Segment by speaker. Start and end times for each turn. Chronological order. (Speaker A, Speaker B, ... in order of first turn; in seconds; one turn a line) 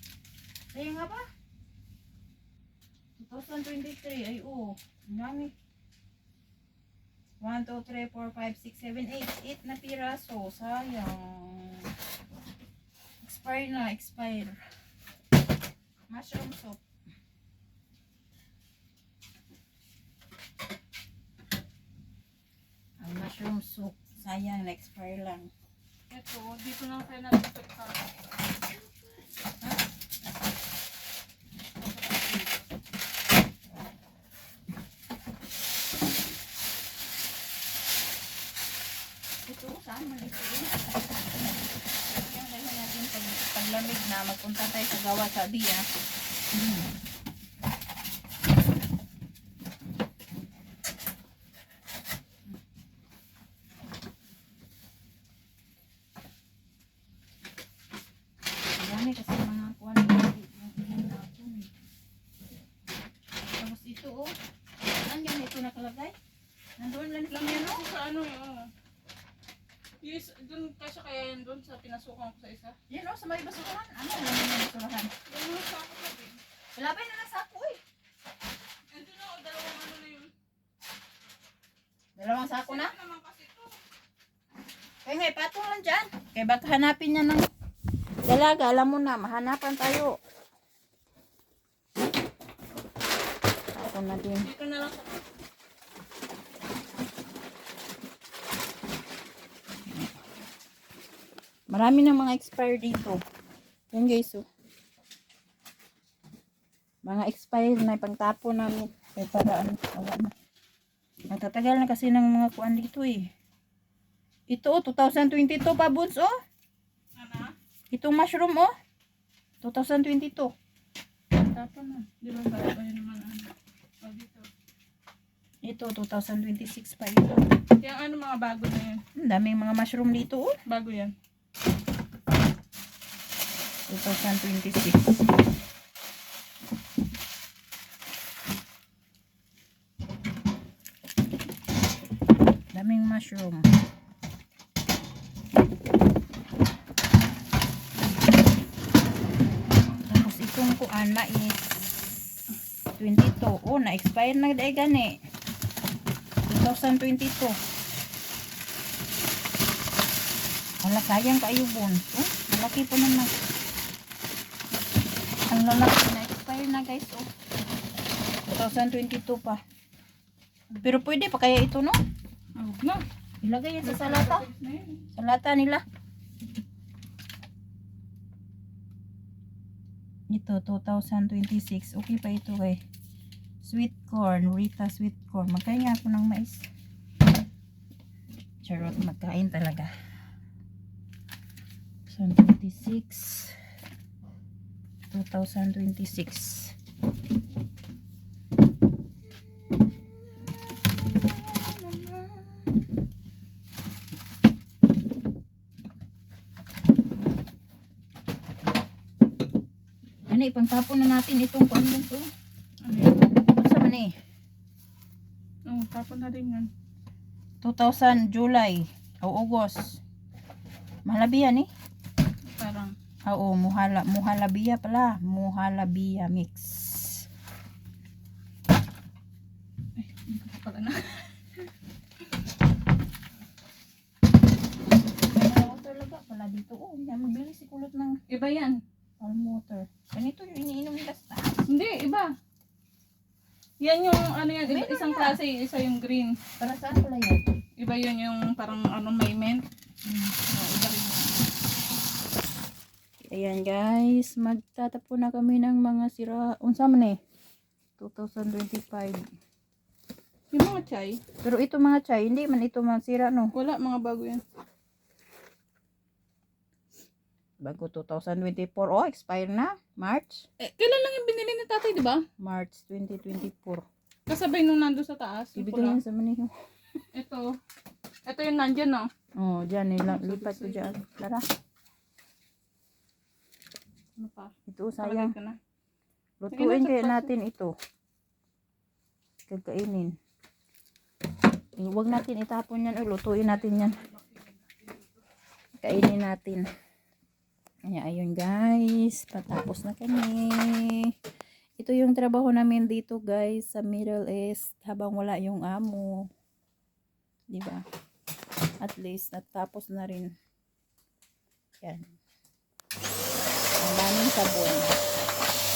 Speaker A: 0.7-1.3
Speaker A: 3.2-5.5
Speaker A: 7.4-11.9
Speaker A: 13.2-14.6
Speaker A: 16.1-16.8
Speaker A: 23.0-25.5
Speaker B: 26.1-28.1
Speaker B: 31.8-32.7
Speaker A: 39.5-40.9
Speaker A: 42.1-45.8
Speaker A: 46.5-46.9
Speaker A: 58.8-61.7
Speaker A: 63.5-64.3
Speaker A: 65.0-66.1
Speaker A: 66.8-67.8
Speaker B: 67.3-68.7
Speaker B: 70.0-72.8
Speaker A: 72.9-75.1
Speaker B: 75.3-76.4
Speaker A: 76.7-77.8
Speaker B: 78.9-80.3
Speaker A: 82.2-82.9
Speaker B: 82.6-83.8
Speaker A: 85.0-87.5
Speaker A: 88.2-90.2
Speaker A: 93.8-94.5
Speaker B: 94.4-95.3
Speaker A: 101.7-103.2
Speaker A: 103.9-104.5
Speaker A: 107.0-110.3
Speaker A: 111.3-113.3
Speaker A: 114.5-116.3
Speaker B: 117.2-117.5
Speaker A: 117.9-118.7
Speaker A: 119.6-120.5
Speaker B: 121.3-123.5
Speaker B: 124.0-124.5
Speaker A: 125.6-127.4
Speaker B: 127.8-129.0
Speaker A: 129.1-130.6
Speaker B: 130.7-131.1
Speaker A: 133.9-135.1
Speaker A: 142.7-143.7
Speaker A: 150.1-151.8
Speaker A: 152.9-155.2
Speaker A: 156.4-157.6
Speaker A: 160.8-163.3
Speaker A: 165.5-167.3
Speaker A: 168.5-169.6
Speaker A: 170.7-172.0
Speaker B: 172.6-173.0
Speaker A: 173.4-174.4
Speaker B: 173.8-175.0
Speaker A: 175.1-175.8
Speaker A: 180.3-182.8
Speaker A: 183.6-186.7
Speaker A: 188.6-189.9
Speaker A: 192.1-193.6
Speaker A: 195.1-196.8
Speaker A: 199.3-202.8
Speaker A: 210.3-212.3
Speaker B: 212.8-213.4
Speaker A: 213.3-214.1
Speaker B: 215.7-216.7
Speaker A: 217.6-220.0
Speaker A: 221.1-221.7
Speaker B: 222.4-222.9
Speaker A: 223.3-227.3
Speaker B: 229.9-231.7
Speaker A: 235.3-238.2
Speaker B: 238.3-238.8
Speaker A: 239.2-241.6
Speaker B: 241.7-242.3
Speaker B: 243.8-246.4
Speaker A: 244.7-245.3
Speaker A: 246.6-247.4
Speaker B: 247.8-249.6
Speaker A: 250.1-250.3
Speaker B: 250.5-251.4
Speaker A: 253.2-257.2
Speaker A: 258.0-259.2
Speaker B: 260.5-261.2
Speaker A: 261.4-263.5
Speaker B: 263.5-264.4
Speaker A: 267.6-270.5
Speaker B: 270.6-272.2
Speaker A: 272.4-273.8
Speaker B: 274.3-276.0
Speaker A: 275.6-276.5
Speaker B: 277.1-277.5
Speaker B: 278.3-279.1
Speaker A: 279.4-281.4
Speaker B: 280.0-280.9
Speaker B: 284.2-285.6
Speaker A: 284.6-285.3
Speaker A: 286.4-287.7
Speaker B: 286.5-287.3
Speaker A: 289.5-290.1
Speaker A: 291.8-294.0
Speaker B: 293.5-295.2
Speaker A: 295.8-296.7
Speaker A: 297.9-301.1
Speaker A: 301.8-306.3
Speaker A: 307.5-307.8
Speaker A: 308.8-310.3
Speaker A: 311.8-312.1
Speaker A: 313.8-314.9